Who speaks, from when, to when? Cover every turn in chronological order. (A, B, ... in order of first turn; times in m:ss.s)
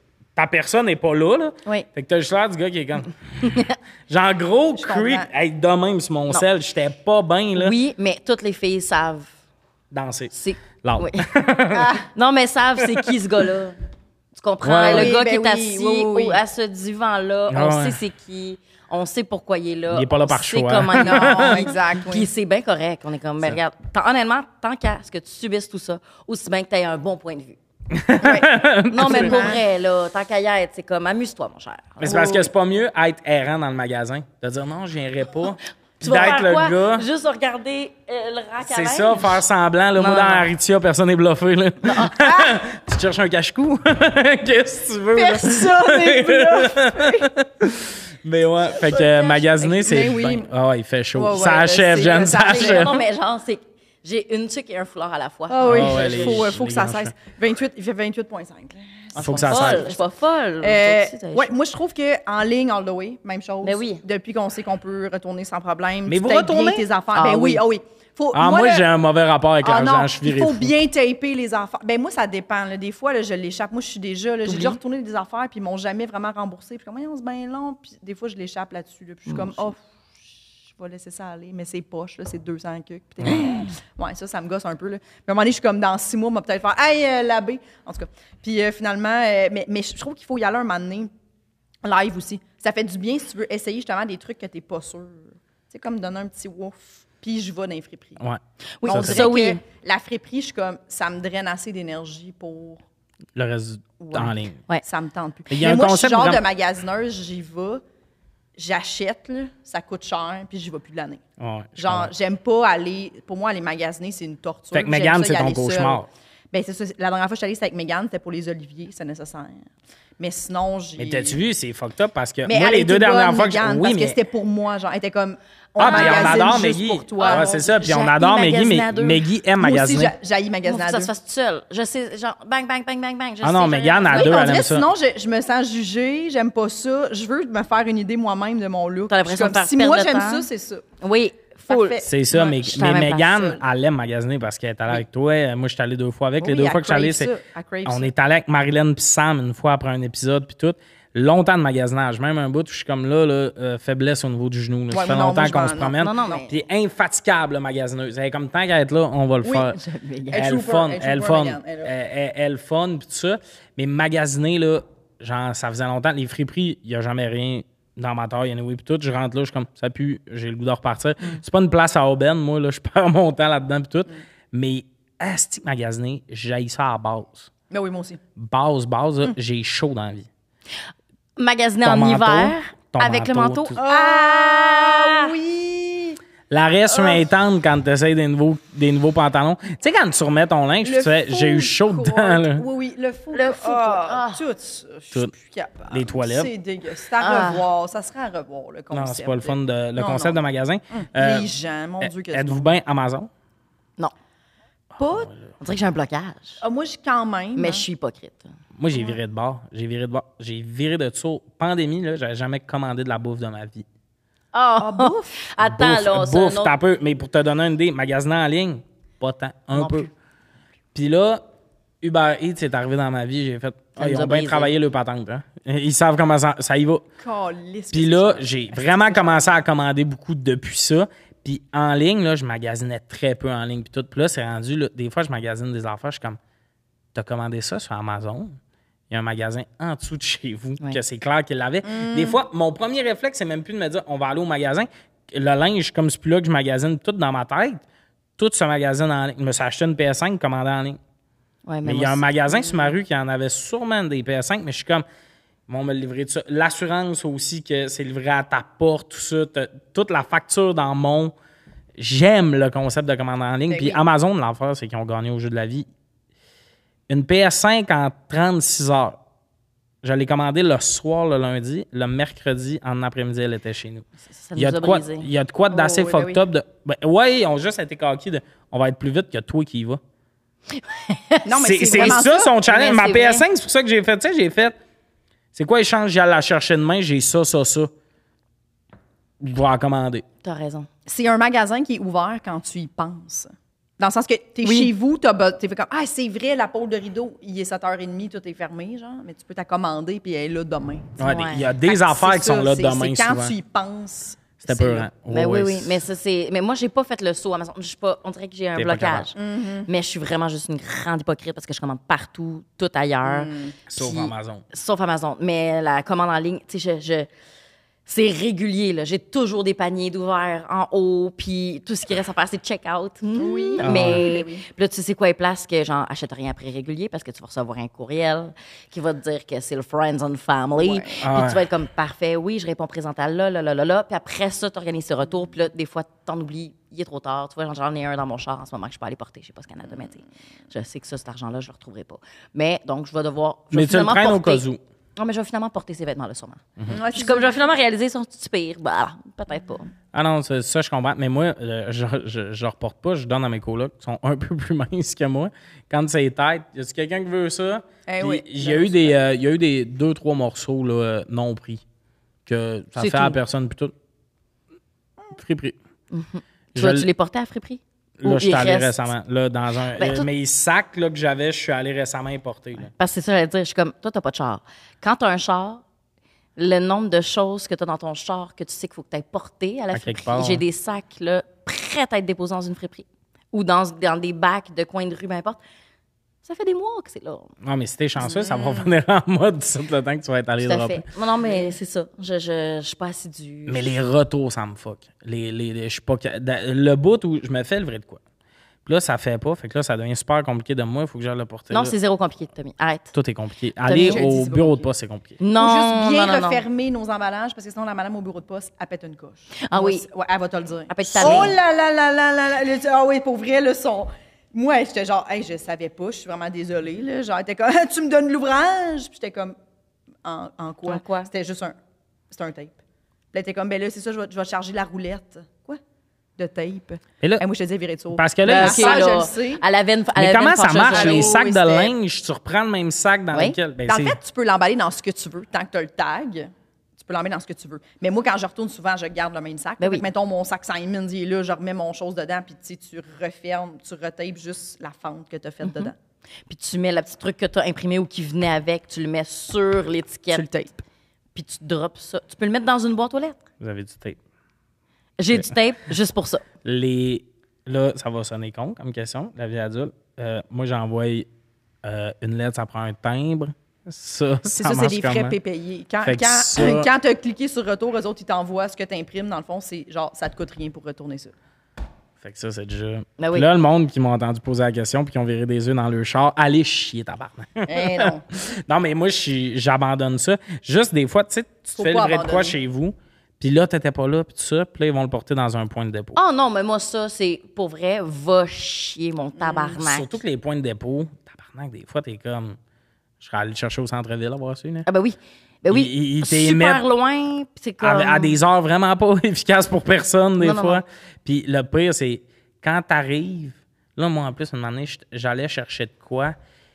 0:00.4-0:07.8 A
0:04.8-0:05.3 B
0:07.6-0:09.3 C
0:09.9-0:12.0 A
0:10.3-0:11.4 C
0:11.7-0:12.0 B
0:12.0-0:13.8 C
0:12.8-0:13.1 A
0:14.4-0:27.6 C
0:14.6-0:15.2 A
0:14.8-0:16.4 B
0:17.5-0:18.0 A
0:19.9-0:21.7 A
0:21.0-0:22.3 B
0:27.9-0:29.5 A
0:28.2-0:29.6 B
0:28.9-0:32.3 C
0:32.0-0:37.1 A
0:32.0-0:32.5 B
0:36.0-0:39.4 C
0:38.6-0:53.0 A
0:40.0-0:40.5 C
0:41.8-0:42.5 C
0:45.1-0:47.3 B
0:48.7-0:50.5 B
0:51.1-0:53.0 B
0:52.2-0:56.5 C
0:55.5-1:00.0 B
0:55.6-0:57.1 A
0:59.2-1:01.5 C
0:59.2-0:59.9 A
1:00.6-1:08.9 B
1:03.6-1:04.0 C
1:06.1-1:06.9 A
1:07.1-1:07.6 C
1:08.3-1:10.7 A
1:09.6-1:19.8 B
1:14.5-1:14.8 C
1:19.3-1:19.6 C
1:20.7-1:31.1 B
1:23.3-1:23.7 C
1:31.8-1:38.2 B
1:38.2-1:39.3 A
1:38.8-1:39.6 C
1:38.8-1:42.8 B
1:43.4-1:44.6 A
1:44.0-1:47.8 B
1:45.5-1:46.4 A
1:48.6-1:51.2 B
1:51.4-1:52.1 A
1:51.8-1:59.7 B
1:54.7-1:56.1 A
2:00.2-2:01.4 B
2:01.0-2:04.2 A
2:02.4-2:07.5 B
2:05.8-2:10.1 A
2:05.8-2:06.6 C
2:07.2-2:09.2 C
2:09.6-2:11.1 B
2:10.6-2:14.6 C
2:13.4-2:14.9 A
2:14.1-2:20.9 B
2:19.1-2:20.5 C
2:21.0-2:23.5 C
2:21.7-2:22.4 B
2:22.0-2:27.3 A
2:26.4-2:28.1 B
2:27.8-2:39.8 A
2:34.9-2:36.4 B
2:36.0-2:36.5 C
2:39.4-2:39.7 B
2:39.8-2:40.4 C
2:40.3-2:41.9 B
2:40.3-2:57.5 A
2:57.7-2:58.2 B
2:58.4-3:00.3 A
3:01.4-3:05.3 C
3:01.8-3:03.8 A
3:03.8-3:06.2 B
3:06.5-3:12.6 A
3:06.9-3:07.3 B
3:10.8-3:22.7 B
3:13.3-3:14.4 C
3:15.9-3:16.5 A
3:17.2-3:17.6 C
3:18.9-3:23.3 A
3:25.0-3:25.3 B
3:25.0-3:25.5 A
3:25.6-3:26.6 C
3:26.6-3:27.9 B
3:27.6-3:28.5 C
3:28.8-3:33.9 A
3:34.5-3:36.7 C
3:34.8-3:35.4 B
3:35.6-3:40.1 A
3:39.7-3:40.1 C
3:40.9-3:41.4 A
3:42.0-3:47.0 A
3:44.0-3:44.7 C
3:47.2-3:49.5 B
3:47.9-3:56.4 A
3:57.1-3:58.6 A
3:59.1-4:07.8 A
4:01.8-4:02.4 B
4:08.4-4:11.0 A
4:11.6-4:12.2 C
4:11.8-4:15.0 A
4:15.7-4:21.4 A
4:22.0-4:25.9 A
4:23.7-4:24.0 B
4:27.1-4:29.2 A
4:30.0-4:40.0 A
4:34.3-4:35.3 C
4:35.7-4:36.4 B
4:40.7-4:43.4 C
4:41.4-4:42.6 B
4:41.6-4:44.8 A
4:45.5-4:47.9 A
4:49.4-4:50.2 A
4:50.4-4:50.9 C
4:51.1-5:01.2 B
4:54.6-4:54.9 C
5:01.2-5:03.6 A
5:01.2-5:01.8 C
5:01.8-5:05.1 B
5:04.6-5:06.0 A
5:05.3-5:17.3 C
5:08.8-5:09.3 A
5:09.4-5:09.9 B
5:13.2-5:13.8 B
5:13.9-5:14.6 A
5:18.1-5:44.6 C
5:23.4-5:24.6 B
5:23.8-5:24.2 A
5:30.8-5:31.2 B
5:31.2-5:31.6 A
5:43.7-5:44.8 A
5:45.2-5:49.9 C
5:46.9-5:47.6 B
5:50.1-6:01.8 A
5:58.1-5:59.2 B
6:02.5-6:03.9 A
6:03.0-6:03.4 C
6:05.3-6:05.8 A
6:06.1-6:09.1 C
6:06.8-6:07.1 A
6:08.2-6:12.9 A
6:10.0-6:10.3 C
6:12.8-6:15.8 C
6:16.6-6:25.6 C
6:19.9-6:20.6 A
6:26.4-6:27.5 C
6:27.6-6:31.1 A
6:28.3-6:28.8 C
6:30.6-6:34.0 C
6:31.4-6:31.7 B
6:33.7-6:38.2 A
6:38.8-6:42.0 A
6:41.7-6:43.1 C
6:43.1-6:45.4 A
6:43.9-6:44.3 C
6:43.9-6:44.9 B
6:45.4-6:46.6 C
6:45.6-6:59.6 B
6:49.6-6:50.0 C
6:50.9-6:51.6 C
7:00.2-7:01.8 B
7:00.9-7:01.3 C
7:02.3-7:02.8 B
7:03.3-7:05.8 B
7:06.4-7:09.6 B
7:08.1-7:09.1 A
7:08.5-7:11.4 C
7:10.2-7:14.2 A
7:10.8-7:11.9 B
7:13.9-7:26.0 B
7:25.6-7:25.9 C
7:26.5-7:30.5 C
7:30.3-7:30.8 B
7:31.4-7:33.4 C
7:33.6-7:34.2 A
7:35.2-7:36.4 C
7:36.6-7:41.3 A
7:41.8-7:45.4 A
7:44.5-7:51.3 B
7:46.0-7:46.9 A
7:52.2-8:06.2 A
7:53.2-7:53.5 C
7:57.7-7:58.2 B
8:01.8-8:02.6 B
8:06.2-8:10.2 C
8:09.4-8:09.8 B
8:09.8-8:12.6 A
8:13.2-8:14.9 A
8:14.9-8:18.4 C
8:15.7-8:16.8 A
8:17.8-8:26.4 A
8:20.4-8:20.8 C